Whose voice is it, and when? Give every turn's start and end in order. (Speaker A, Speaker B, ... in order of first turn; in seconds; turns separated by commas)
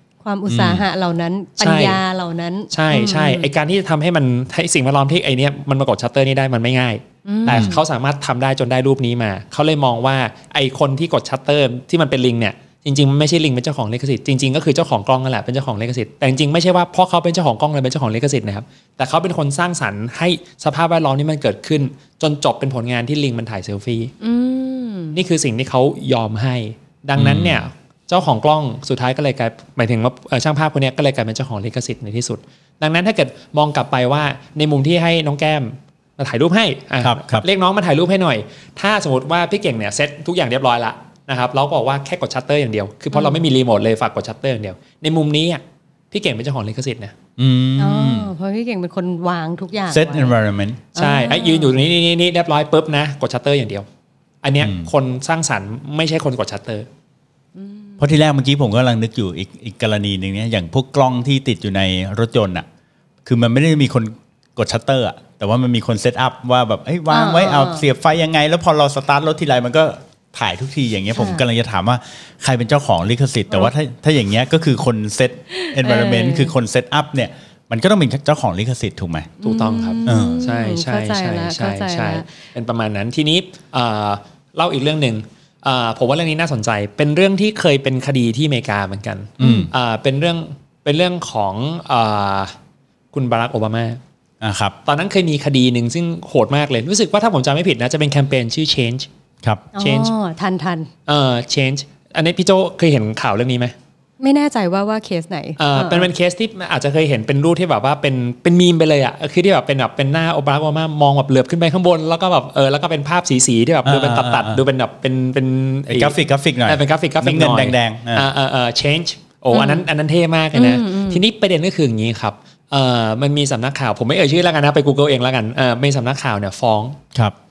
Speaker A: 0.2-3.5, Speaker B: 0.5-0.8, Speaker C: 1.6-2.0, Speaker C: 2.7-24.1, Speaker A: 7.2-7.7, Speaker B: 7.5-7.8, Speaker A: 24.2-25.2, Speaker C: 25.1-47.1, Speaker B: 27.1-27.6, Speaker B: 37.0-37.4, Speaker A: 43.1-43.4, Speaker B: 47.4-48.3, Speaker A: 47.8-50.3, Speaker B: 49.9-50.9, Speaker A: 51.0-51.8, Speaker C: 51.0-53.9, Speaker C: 54.4-56.9, Speaker B: 54.6-54.9, Speaker A: 57.6-58.0, Speaker B: 58.0-62.6, Speaker B: 63.2-79.3, Speaker A: 67.1-67.8, Speaker A: 71.1-71.4, Speaker A: 75.5-76.5, Speaker A: 79.4-82.3, Speaker C: 79.4-92.5, Speaker B: 80.0-80.4, Speaker B: 89.4-89.7, Speaker A: 89.4-89.7, Speaker C: 93.1-94.0, Speaker B: 94.4-94.8, Speaker C: 94.8-99.1, Speaker B: 99.4-99.7, Speaker A: 99.7-100.9, Speaker C: 99.8-100.1, Speaker C: 101.0-103.7, Speaker A: 104.2-106.1, Speaker C: 105.6-127.0, Speaker B: 113.8-114.6, Speaker B: 115.9-118.3, Speaker A: 119.5-119.8, Speaker A: 120.5-121.2